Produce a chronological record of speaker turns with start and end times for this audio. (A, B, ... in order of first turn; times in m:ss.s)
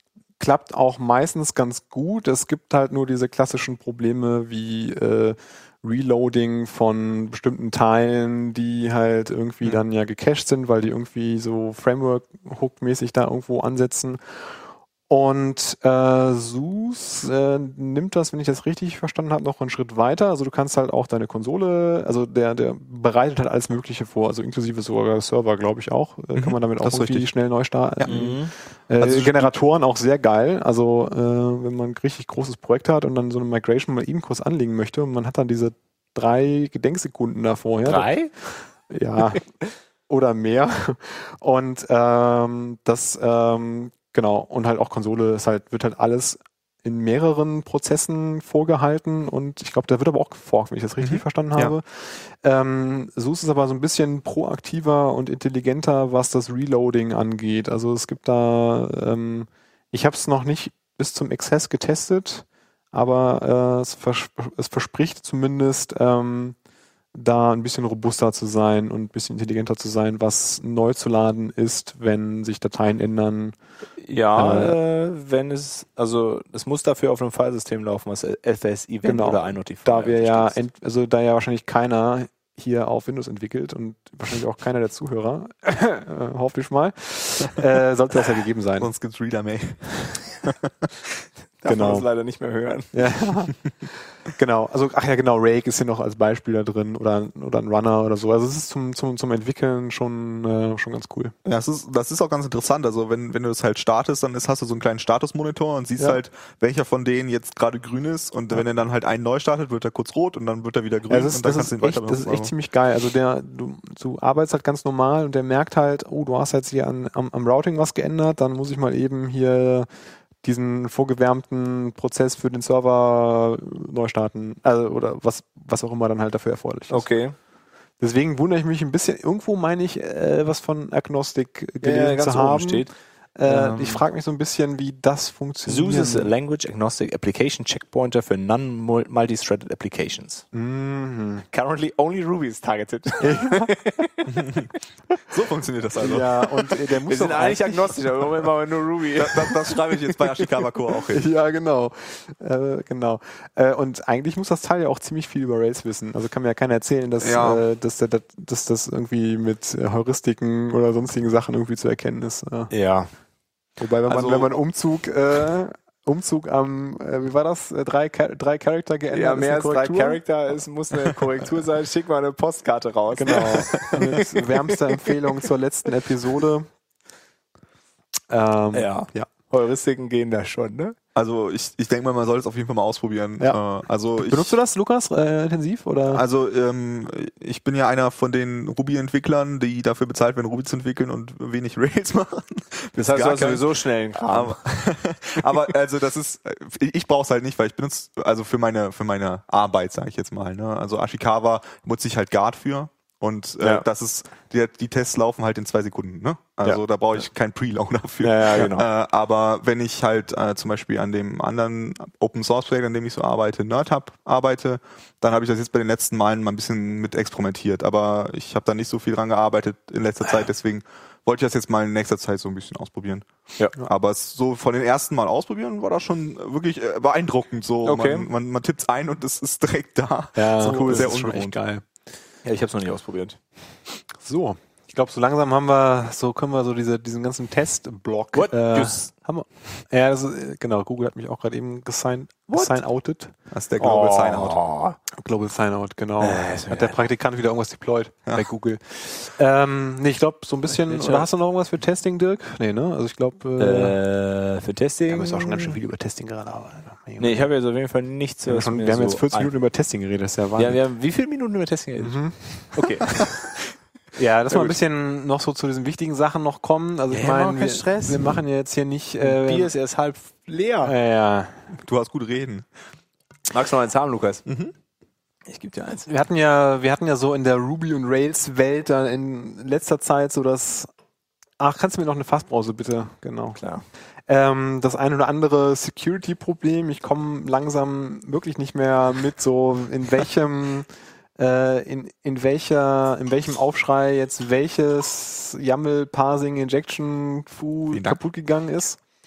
0:00.4-0:14.5 A
0:15.1-0:38.1 A
0:26.4-0:27.3 B
0:28.1-0:28.5 C
0:29.0-0:29.5 B
0:37.9-0:38.3 C
0:38.9-0:39.5 A
0:40.1-1:06.6 A
0:51.0-0:51.8 B
1:07.1-1:13.6 A
1:14.0-1:20.6 C
1:14.4-1:14.8 A
1:19.0-1:28.9 A
1:28.8-1:31.0 B
1:31.6-1:33.0 C
1:31.7-1:32.1 A
1:32.9-1:33.6 A
1:34.3-1:41.3 A
1:41.4-1:52.5 B
1:51.1-1:59.9 A
2:00.4-2:07.1 A
2:06.9-2:07.4 C
2:08.0-2:12.9 A
2:11.8-2:12.9 C
2:13.4-2:16.3 A
2:13.5-2:14.0 C
2:15.7-2:20.5 C
2:20.5-2:21.4 A
2:21.5-2:24.5 C
2:23.2-2:23.7 A
2:24.3-2:24.7 B
2:25.3-2:26.5 B
2:26.0-2:27.9 A
2:27.1-2:29.8 C
2:29.2-2:31.2 B
2:31.1-2:42.7 A
2:37.2-2:37.6 B
2:42.7-2:43.1 C
2:43.8-2:50.2 A
2:44.1-2:44.5 B
2:49.1-2:54.4 C
2:53.1-2:56.7 A
2:53.6-2:54.1 B
2:58.3-2:59.3 A
2:58.7-3:01.0 C
3:01.2-3:04.6 B
3:04.2-3:06.2 A
3:06.1-3:13.6 B
3:13.0-3:14.6 C
3:14.2-3:43.3 B
3:28.2-3:28.9 C
3:43.8-3:51.6 B
3:47.8-3:48.3 C
3:50.4-3:51.8 A
3:50.8-3:51.1 C
3:52.4-3:53.4 C
3:54.2-4:03.3 A
3:58.4-3:59.1 C
4:02.5-4:02.8 C
4:03.5-4:04.6 B
4:03.8-4:05.0 C
4:05.1-4:14.0 A
4:06.2-4:07.0 C
4:10.7-4:11.3 C
4:13.6-4:15.8 C
4:15.1-4:17.5 A
4:17.2-4:19.5 C
4:18.5-4:20.8 A
4:20.6-4:23.2 C
4:22.0-4:22.9 A
4:24.2-4:29.7 A
4:24.5-4:24.8 C
4:27.1-4:28.4 C
4:29.2-4:31.0 C
4:30.8-4:31.7 A
4:31.7-4:32.7 B
4:33.5-4:34.5 C
4:34.5-4:34.7 B
4:35.5-4:36.1 C
4:36.1-4:40.9 A
4:41.6-4:43.6 A
4:44.3-4:59.0 A
4:57.9-4:58.2 B